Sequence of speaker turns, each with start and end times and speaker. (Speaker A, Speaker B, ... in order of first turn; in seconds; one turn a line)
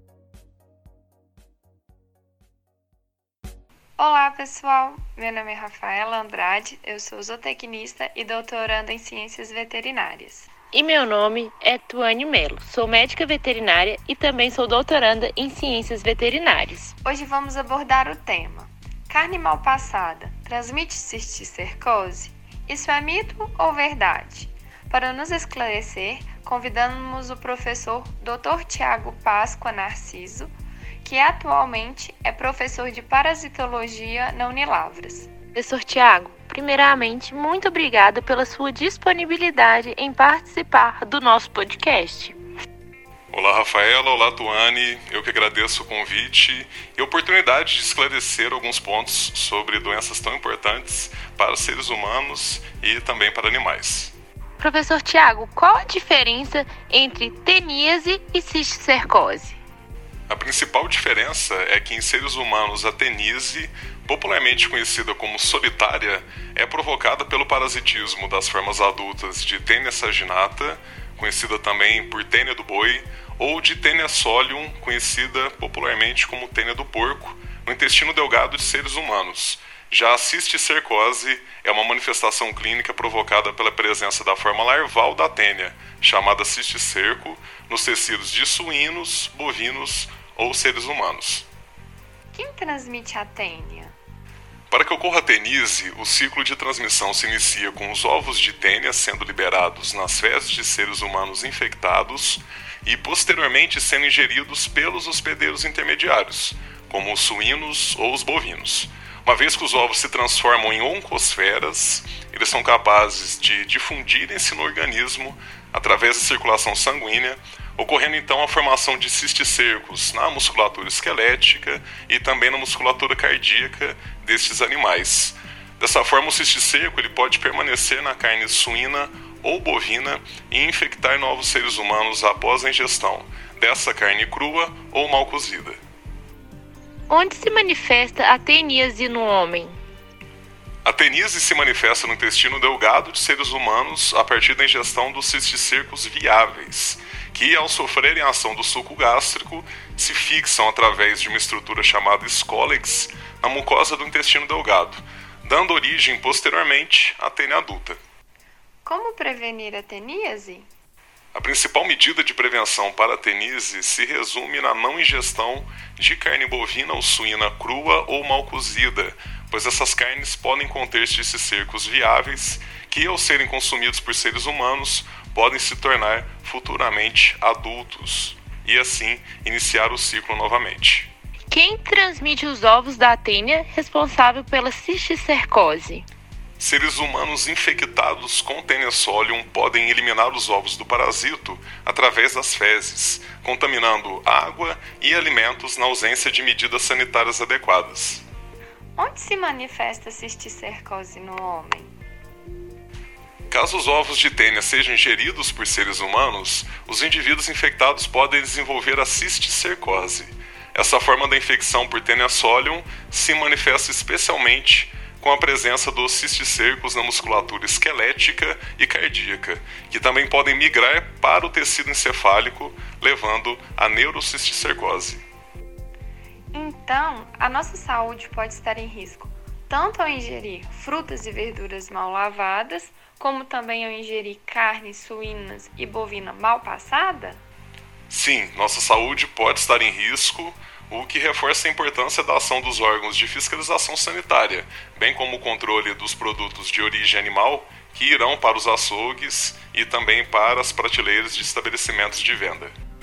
Speaker A: 4.0-10.5
Speaker B: 10.7-16.9
Speaker A: 17.0-30.5
Speaker A: 31.0-35.3
Speaker B: 35.5-42.4
Speaker C: 43.3-54.1
Speaker B: 54.6-59.6
Speaker C: 60.3-91.5
Speaker A: 92.3-93.9
Speaker C: 94.7-135.8
Speaker B: 137.1-139.8
Speaker C: 140.8-158.0
Speaker A: 158.8-160.7
Speaker C: 161.3-181.1
Speaker B: 181.5-186.0
Speaker C: 186.6-198.2
Speaker A: 198.9-201.9
Speaker C: 203.5-225.2
Speaker A: 226.5-237.4
Speaker C: 238.1-252.7